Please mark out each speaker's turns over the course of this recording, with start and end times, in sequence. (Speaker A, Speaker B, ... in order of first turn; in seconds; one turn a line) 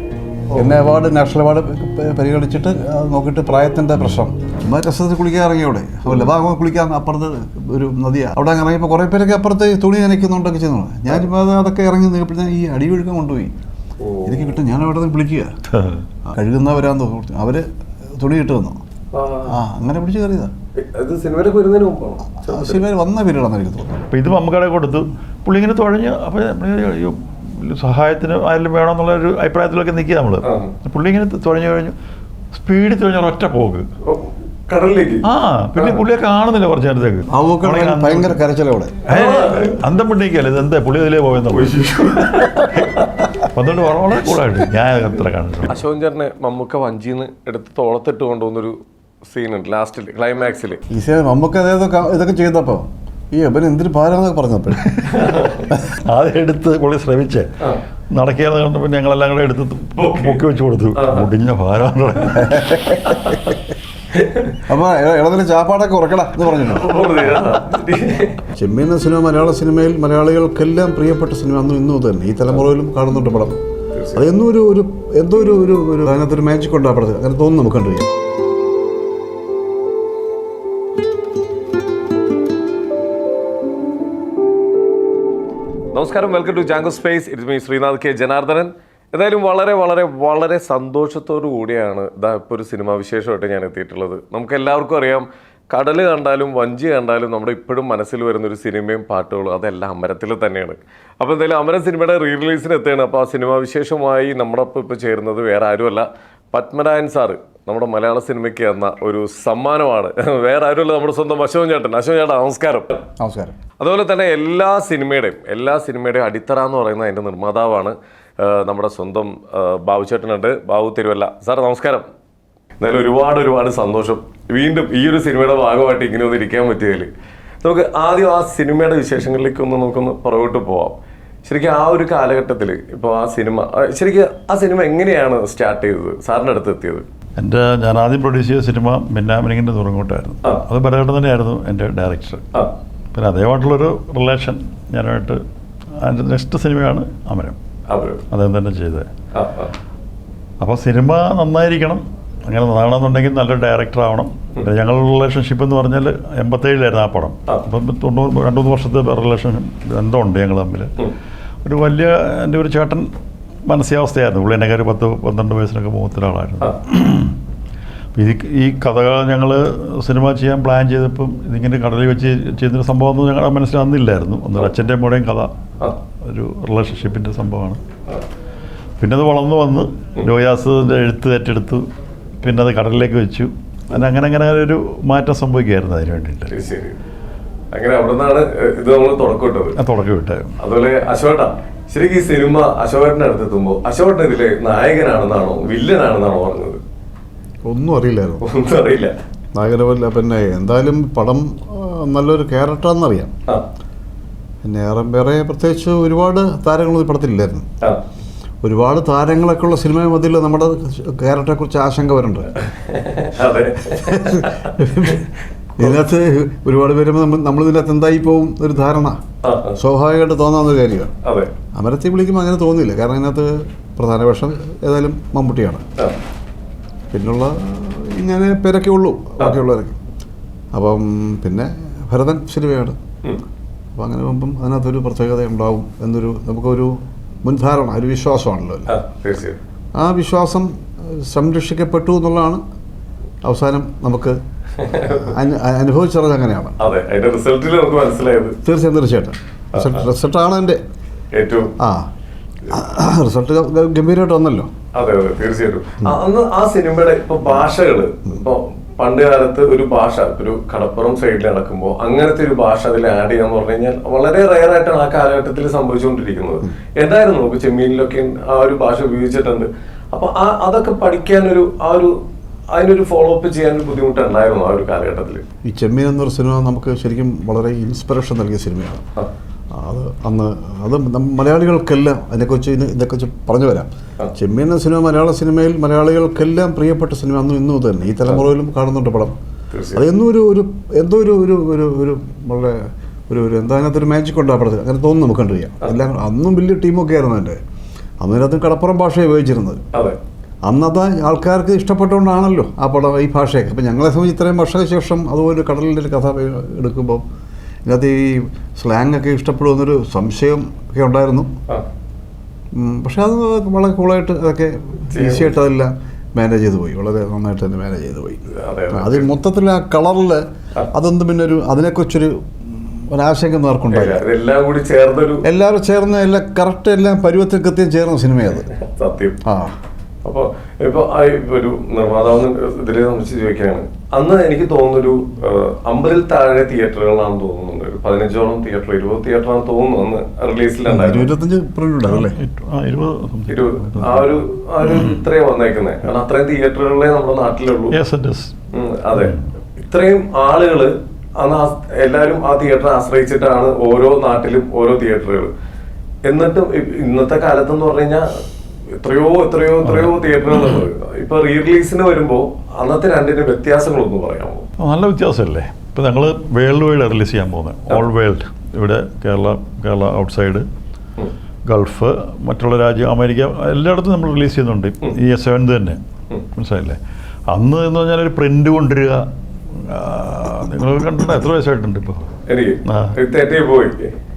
Speaker A: 0.6-13.5
Speaker B: 14.0-14.6
Speaker A: 14.2-15.5
Speaker C: 15.7-16.0
Speaker A: 16.2-17.7
Speaker A: 18.2-18.8
Speaker B: 19.1-19.6
Speaker A: 19.5-20.5
Speaker B: 20.8-22.8
Speaker A: 22.4-24.1
Speaker C: 24.1-31.9
Speaker B: 30.4-30.7
Speaker C: 32.5-33.9
Speaker B: 34.0-36.0
Speaker C: 35.2-38.4
Speaker A: 37.3-39.0
Speaker B: 39.1-39.8
Speaker C: 39.1-41.8
Speaker B: 41.5-43.0
Speaker C: 42.7-45.8
Speaker B: 45.7-50.8
Speaker A: 50.9-55.0
Speaker B: 55.1-55.7
Speaker C: 55.7-57.5
Speaker C: 58.1-62.6
Speaker B: 60.0-60.4
Speaker B: 61.0-61.3
Speaker A: 62.3-63.5
Speaker B: 64.1-64.6
Speaker A: 64.7-66.9
Speaker B: 66.5-68.4
Speaker A: 68.5-73.6
Speaker B: 73.9-74.2
Speaker A: 74.1-78.1
Speaker B: 85.9-113.0
Speaker A: 113.2-113.5
Speaker B: 113.8-122.0
Speaker B: 122.8-127.1
Speaker B: 127.6-137.1
Speaker C: 137.4-142.4
Speaker C: 143.1-145.4
Speaker C: 146.0-147.6
Speaker B: 147.9-148.2
Speaker C: 148.3-149.1
Speaker B: 149.3-149.7
Speaker C: 150.6-160.9
Speaker C: 161.6-163.1
Speaker C: 163.7-167.3
Speaker C: 168.1-175.5
Speaker C: 176.2-177.8
Speaker C: 179.0-181.8
Speaker C: 182.4-186.5
Speaker B: 186.5-187.0
Speaker B: 187.7-189.8
Speaker C: 189.8-190.5
Speaker B: 190.6-196.8
Speaker A: 197.7-198.4
Speaker B: 198.4-199.1
Speaker A: 199.5-203.3
Speaker A: 204.6-207.7
Speaker A: 208.6-212.5
Speaker B: 212.6-215.2
Speaker A: 213.9-219.2
Speaker B: 219.4-219.8
Speaker A: 219.8-221.1
Speaker B: 221.2-221.5
Speaker A: 221.7-225.8
Speaker A: 227.1-230.0
Speaker A: 230.7-233.0
Speaker A: 233.9-238.9
Speaker B: 238.9-239.6
Speaker A: 239.9-242.6
Speaker A: 243.4-244.4
Speaker B: 244.8-245.3
Speaker A: 245.1-246.8
Speaker B: 246.8-248.6
Speaker A: 248.6-250.8
Speaker B: 249.7-250.1
Speaker B: 251.3-251.7
Speaker A: 251.8-252.1
Speaker A: 252.7-254.7
Speaker B: 254.9-272.2
Speaker B: 272.7-275.4
Speaker A: 275.6-279.0
Speaker A: 279.7-289.3
Speaker B: 289.7-290.0
Speaker A: 289.9-297.6
Speaker A: 298.2-299.8
Speaker A: 300.6-307.2
Speaker A: 307.8-311.5
Speaker A: 312.7-324.2
Speaker B: 315.1-315.5
Speaker B: 318.5-319.3
Speaker B: 323.9-325.4
Speaker A: 325.4-328.7
Speaker B: 328.7-329.4
Speaker A: 329.4-329.7
Speaker B: 330.2-341.3
Speaker A: 340.9-342.4
Speaker C: 342.1-345.2
Speaker B: 343.5-347.9
Speaker C: 347.9-348.5
Speaker B: 348.7-355.5
Speaker C: 349.1-349.4
Speaker B: 356.3-358.4
Speaker B: 359.0-364.7
Speaker C: 359.8-360.8
Speaker C: 364.8-370.6
Speaker C: 371.6-376.0
Speaker C: 376.5-382.3
Speaker B: 382.5-384.1
Speaker C: 382.8-383.1